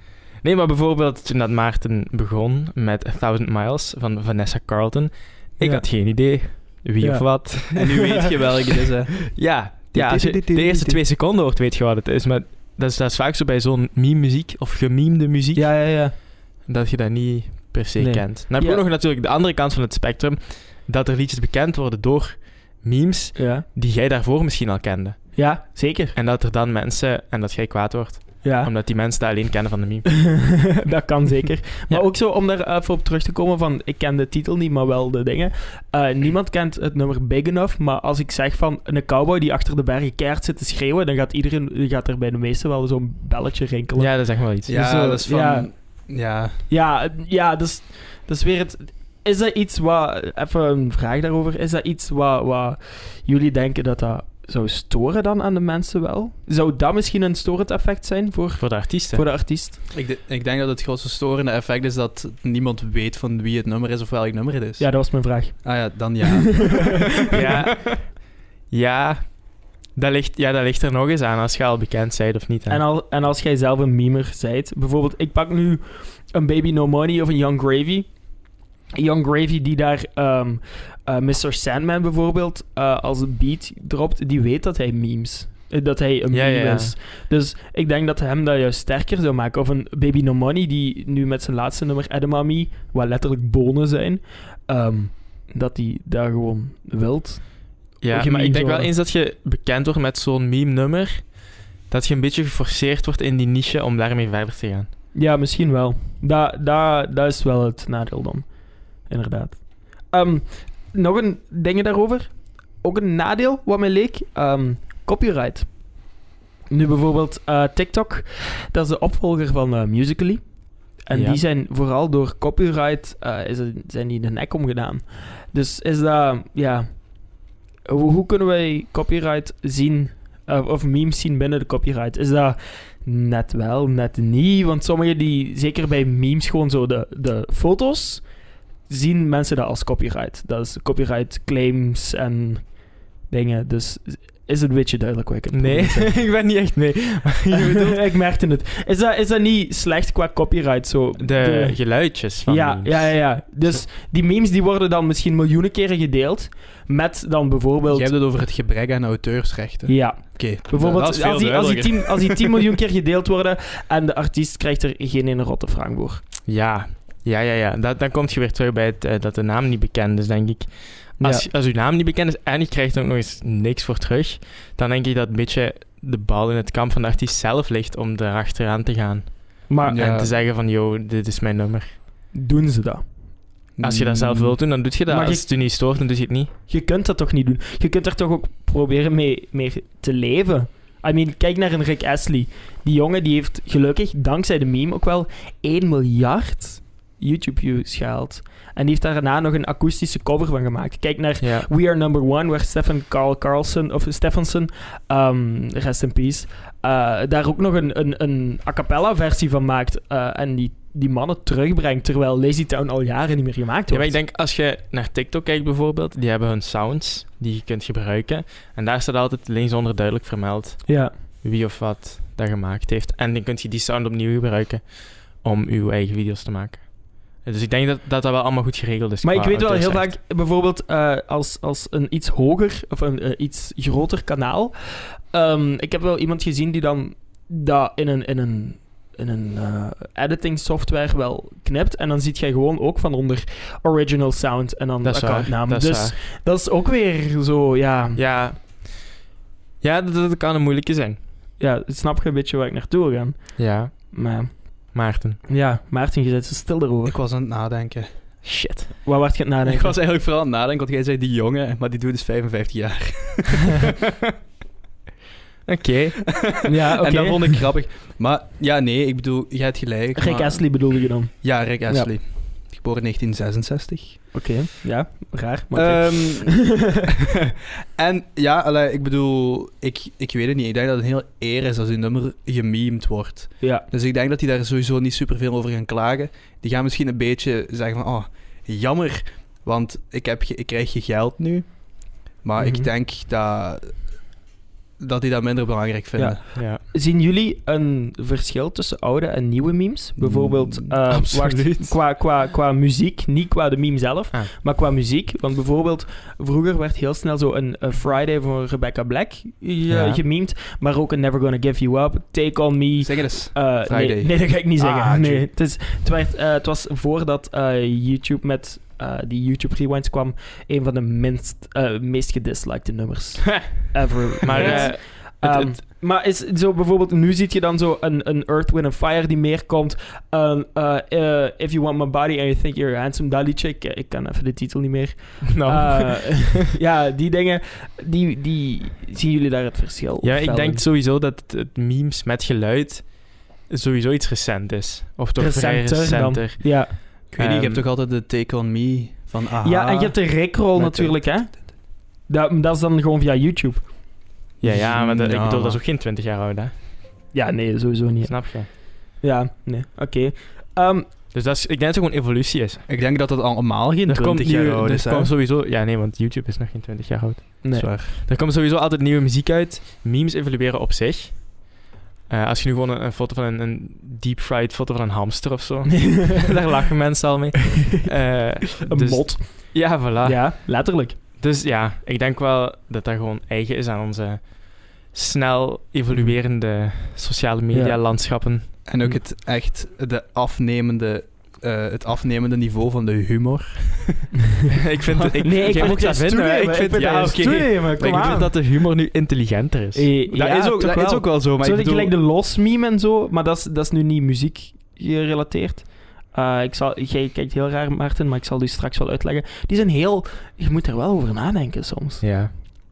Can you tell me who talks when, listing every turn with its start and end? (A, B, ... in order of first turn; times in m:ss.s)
0:00.4-0:08.0 A
0:05.6-0:05.9 B
0:07.0-0:07.8 B
0:07.8-0:09.3 C
0:09.3-0:25.6 A
0:10.0-0:10.9 C
0:10.0-0:11.0 B
0:15.5-0:16.1 B
0:18.0-0:18.8 B
0:23.4-0:23.6 B
0:25.4-0:26.1 B
0:26.1-0:30.7 A
0:28.4-0:28.7 B
0:30.1-0:59.8 B
0:44.0-0:45.0 A
0:44.6-0:46.6 C
0:58.6-0:59.2 A
0:59.9-1:07.0 C
1:04.8-1:06.3 B
1:07.3-1:12.8 A
1:12.7-1:38.9 B
1:26.3-1:26.9 A
1:38.0-1:44.9 A
1:45.1-2:26.3 B
2:01.1-2:01.4 A
2:25.5-2:28.0 A
2:27.5-2:38.1 B
2:31.2-2:33.6 A
2:37.9-2:42.4 C
2:39.9-2:46.2 B
2:46.4-3:02.0 A
2:51.2-2:51.5 B
2:59.7-3:00.0 B
2:59.8-3:00.3 C
3:02.3-3:03.2 B
3:03.8-3:04.6 C
3:03.8-3:06.5 A
3:05.1-3:05.5 B
3:06.7-3:34.2 B
3:21.4-3:21.7 A
3:33.9-3:50.1 A
3:40.9-3:41.1 B
3:49.2-4:08.3 B
4:05.0-4:06.2 A
4:08.2-4:09.1 A
4:09.8-4:11.2 A
4:11.6-4:17.2 B
4:13.6-4:15.4 A
4:17.0-4:18.4 C
4:18.4-4:19.0 A
4:19.0-4:20.0 B
4:19.6-4:23.9 C
4:25.6-4:26.4 A
4:26.6-4:27.6 B
4:27.0-4:34.3 C
4:30.2-4:32.1 B
4:34.3-4:36.8 B
4:35.7-4:37.0 C
4:37.9-4:54.3 C
4:43.6-4:43.8 B
4:52.6-4:52.9 B
4:55.0-4:56.4 C
4:56.2-5:40.8 B
4:56.5-4:56.8 A
5:00.2-5:01.0 C
5:01.1-5:02.0 A
5:09.9-5:10.2 A
5:13.0-5:15.5 C
5:24.4-5:25.8 A
5:24.5-5:24.9 C
5:35.5-5:36.6 A
5:40.2-5:47.8 A
5:45.4-5:46.9 B
5:47.3-5:51.6 C
5:49.6-5:54.1 B
5:54.6-5:56.7 A
5:54.6-5:55.8 C
5:57.3-6:01.1 B
5:58.3-5:58.7 A
6:01.3-6:02.8 A
6:02.9-6:05.3 C
6:04.1-6:29.2 A
6:07.6-6:07.9 B
6:07.8-6:08.2 C
6:18.8-6:21.2 B
6:27.7-6:28.0 B
6:28.8-6:34.4 C
6:34.8-6:40.1 A
6:35.1-6:38.4 C
6:35.4-6:38.6 B
6:39.9-6:52.3 B
6:40.3-6:42.1 C
6:52.2-6:52.5 A